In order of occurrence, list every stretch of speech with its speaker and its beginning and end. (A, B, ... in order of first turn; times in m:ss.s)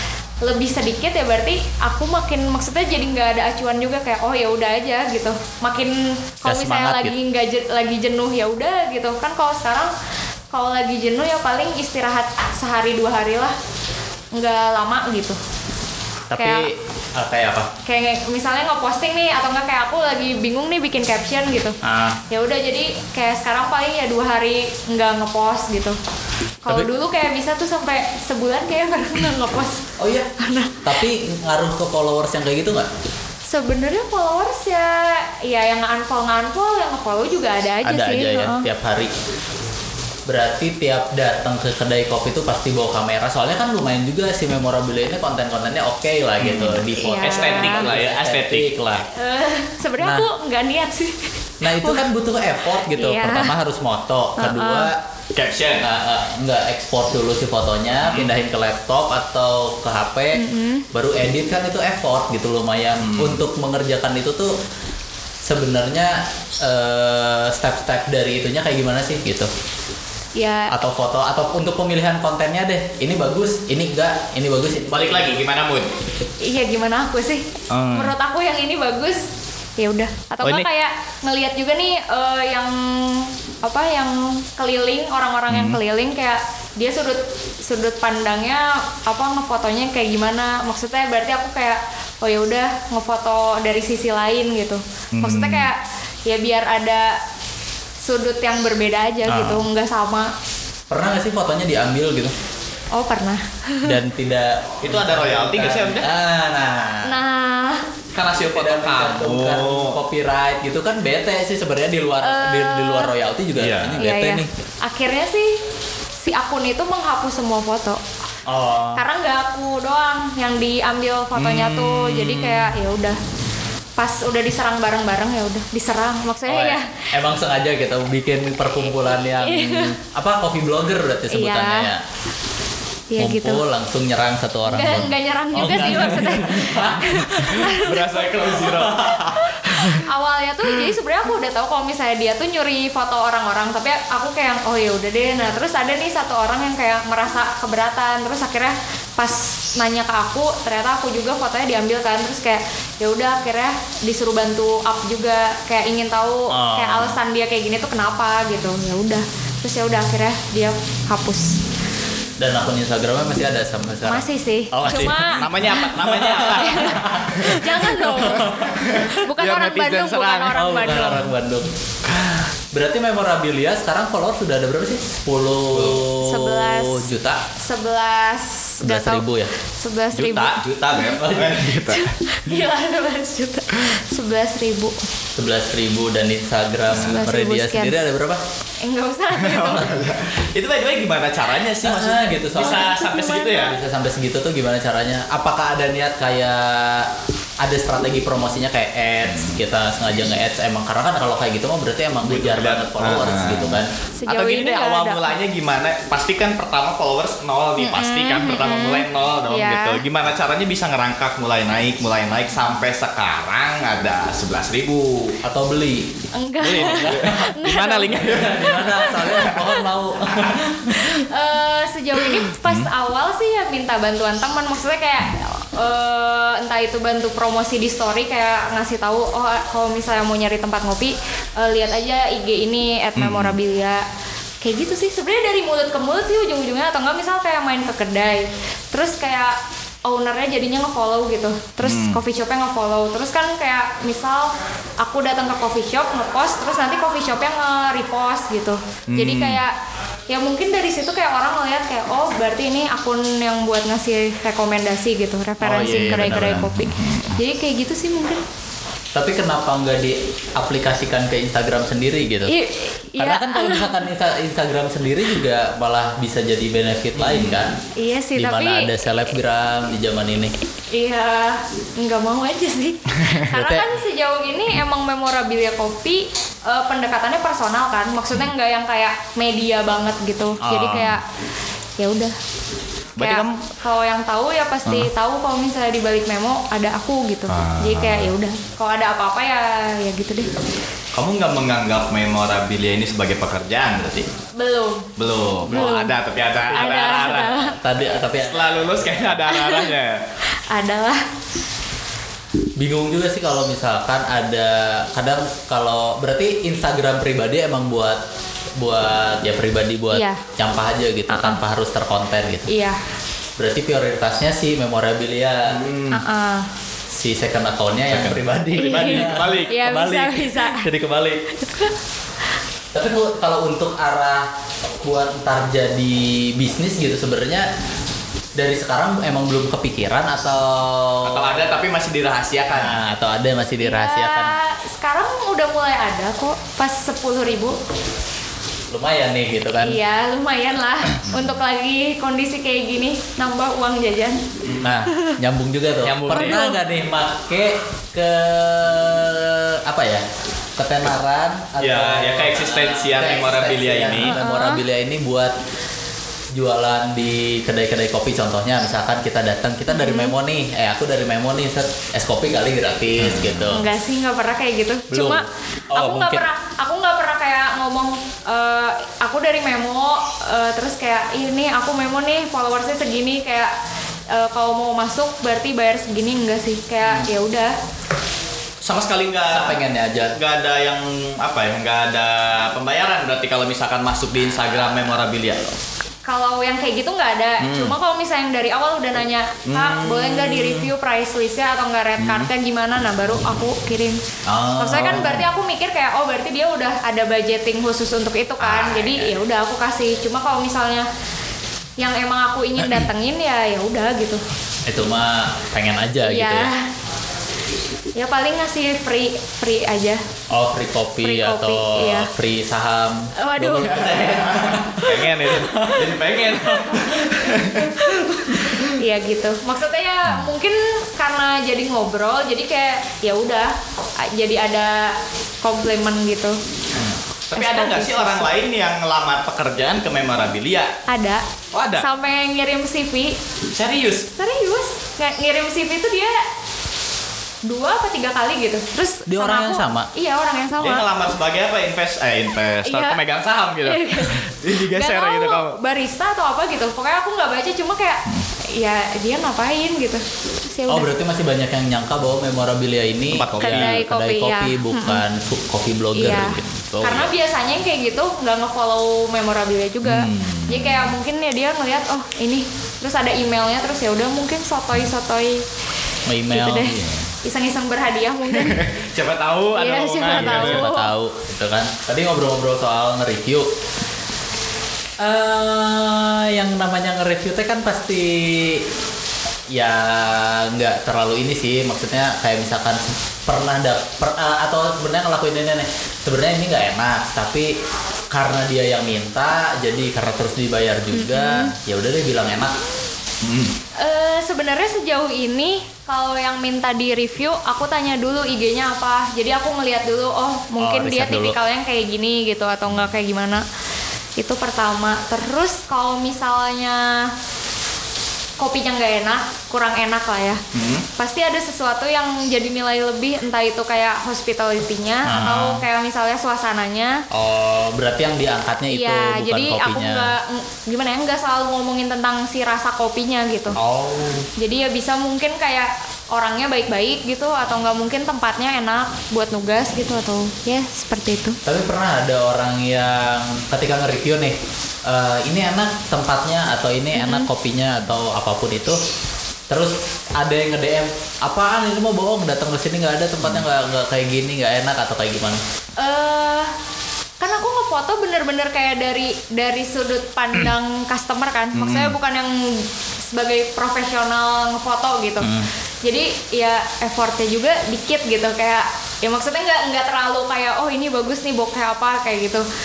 0:00.4-0:09.9 A
0:06.4-0:07.2 B
0:10.5-0:13.6 A
0:14.3-0:15.4 A
0:16.3-0:17.7 B
0:16.4-0:16.7 A
0:17.8-0:21.8 A
0:21.8-0:22.2 B
0:22.3-0:26.0 A
0:26.6-0:31.0 A
0:30.0-0:30.3 B
0:30.8-0:32.9 B
0:33.5-0:38.7 A
0:37.8-0:39.1 B
0:40.3-0:49.1 B
0:46.4-0:48.7 C
0:47.0-0:47.8 A
0:49.1-0:52.1 A
0:50.0-0:50.3 B
0:51.6-0:55.0 B
0:52.8-0:53.5 A
0:54.4-0:54.9 A
0:55.3-0:55.9 C
0:55.8-1:04.5 B
1:00.3-1:00.9 A
1:03.0-1:03.4 C
1:05.4-1:09.5 B
1:10.4-1:10.7 A
1:10.7-1:15.4 B
1:14.9-1:15.9 C
1:16.4-1:37.2 A
1:17.7-1:18.2 C
1:25.5-1:25.8 C
1:35.2-1:35.7 C
1:38.0-1:40.3 A
1:39.3-1:39.7 B
1:40.9-1:42.3 B
1:42.9-1:44.0 A
1:43.8-1:47.2 B
1:44.8-1:46.1 C
1:47.0-1:47.9 A
1:48.1-1:50.0 C
1:48.3-1:54.5 B
1:52.2-1:53.1 A
1:53.6-1:54.0 C
1:54.0-1:55.6 A
1:56.2-1:58.0 A
1:58.5-1:59.0 B
1:59.0-2:03.2 A
2:01.4-2:02.7 C
2:04.0-2:07.1 A
2:06.5-2:12.0 B
2:08.8-2:10.0 A
2:11.3-2:11.9 A
2:13.1-2:13.6 A
2:13.2-2:17.6 B
2:14.7-2:41.6 A
2:15.7-2:16.2 C
2:17.3-2:20.0 C
2:18.6-2:19.4 B
2:36.5-2:37.2 B
2:42.4-2:49.1 B
2:44.0-2:45.9 A
2:44.8-2:50.6 C
2:46.4-2:51.3 A
2:50.6-2:51.7 B
2:52.0-2:52.4 C
2:52.7-2:57.5 B
2:55.7-2:56.1 C
2:56.2-3:01.2 A
2:58.8-2:59.5 B
3:00.1-3:02.2 C
3:01.2-3:01.7 B
3:01.7-3:05.0 A
3:05.4-3:08.4 B
3:06.9-3:08.0 A
3:08.8-3:10.0 A
3:09.3-3:13.8 C
3:11.8-3:13.0 B
3:12.6-3:13.7 A
3:13.5-3:23.9 B
3:22.2-3:35.4 C
3:24.2-3:25.3 A
3:27.8-3:30.0 A
3:35.4-3:36.1 B
3:36.3-3:39.8 A
3:36.6-3:39.7 C
3:36.7-3:37.5 B
3:38.1-3:41.2 B
3:40.3-3:40.6 C
3:40.9-3:54.0 A
3:42.4-3:42.9 C
3:53.2-3:53.6 C
3:54.6-4:09.7 A
4:01.8-4:02.2 C
4:09.1-4:09.6 C
4:10.3-4:18.4 A
4:15.6-4:16.8 B
4:16.5-4:17.4 C
4:19.1-4:22.5 B
4:22.5-4:24.0 A
4:23.2-4:27.8 B
4:27.2-4:27.6 C
4:28.0-4:28.9 A
4:28.4-4:30.5 B
4:30.9-4:41.2 A
4:33.5-4:33.9 B
4:40.6-4:41.2 B
4:42.0-4:42.4 A
4:43.2-4:43.6 C
4:43.2-4:50.5 A
4:47.5-4:48.3 C
4:51.1-4:54.3 C
4:54.6-4:55.1 A
4:55.2-5:00.2 C
4:55.7-4:56.2 A
4:56.7-4:58.9 B
4:56.7-4:57.8 A
4:59.5-4:59.9 A
5:00.5-5:01.2 A
5:02.8-5:08.2 B
5:08.8-5:12.7 B
5:10.1-5:10.4 A
5:11.3-5:11.6 A
5:12.7-5:13.0 A
5:13.6-5:15.8 B
5:15.7-5:16.2 C
5:16.1-5:16.7 A
5:17.1-5:21.4 B
5:18.1-5:20.0 C
5:18.8-5:20.9 A
5:21.6-5:21.9 A
5:22.9-5:24.5 B
5:25.0-5:27.7 B
5:28.6-5:31.6 B
5:31.2-5:33.0 C
5:32.7-5:34.6 B
5:33.8-5:37.8 A
5:38.9-5:40.0 B
5:39.8-5:44.4 A
5:44.8-5:50.2 B
5:46.0-5:46.7 C
5:46.3-5:46.8 A
5:50.8-5:55.6 B
5:51.8-5:54.4 C
5:54.2-5:54.8 A
5:56.5-6:03.8 B
5:59.9-6:00.3 A
6:03.2-6:03.7 C
6:03.7-6:13.7 A
6:05.1-6:06.5 B
6:14.3-6:17.7 A
6:18.8-6:19.8 C
6:19.5-6:20.4 B
6:20.3-6:25.6 C
6:26.2-6:34.2 A
6:27.6-6:28.0 C
6:29.7-6:30.9 C
6:32.2-6:32.5 C
6:34.5-6:35.4 B
6:34.8-6:41.1 A
6:35.0-6:35.3 C
6:38.6-6:39.3 B
6:42.0-6:44.4 A
6:44.9-6:46.7 B
6:46.2-6:46.9 A
6:48.2-6:50.2 A
6:50.5-6:57.2 B
6:51.2-6:52.3 A
6:53.4-6:54.4 A
6:53.8-6:58.9 C
6:57.8-7:06.6 A
7:07.0-7:10.9 C
7:07.6-7:08.5 A
7:11.1-7:11.4 A
7:11.7-7:12.1 C
7:12.0-7:13.4 A
7:13.7-7:14.3 C
7:14.3-7:16.4 A
7:17.7-7:21.1 A
7:19.3-7:20.1 B
7:20.8-7:25.8 C
7:22.8-7:23.2 A
7:23.8-7:31.1 A
7:30.9-7:37.3 B
7:33.3-7:34.0 C
7:33.6-7:35.2 A
7:36.2-7:45.6 A
7:40.0-7:41.1 C
7:46.3-7:47.0 B
7:46.5-7:48.9 A
7:46.9-7:47.2 C
7:48.5-7:50.9 C
7:49.7-7:51.1 A
7:50.3-7:53.7 B
7:55.2-7:58.8 B
7:59.7-8:07.7 B
8:08.3-8:12.8 B
8:11.1-8:11.7 A
8:13.4-8:13.7 C
8:14.0-8:23.6 A
8:20.8-8:21.6 B
8:24.4-8:27.3 A
8:28.6-8:30.6 A
8:30.7-8:31.0 C
8:31.2-8:37.2 A
8:35.3-8:35.8 B
8:37.3-8:40.4 B
8:38.9-8:43.8 A
8:43.8-8:44.5 B
8:44.6-8:51.6 A
8:51.6-8:59.0 B
8:57.2-8:57.5 A
8:59.7-9:05.6 B
9:06.0-9:06.7 A
9:07.4-9:15.5 A
9:11.7-9:12.2 C
9:15.4-9:15.7 B
9:16.0-9:22.6 A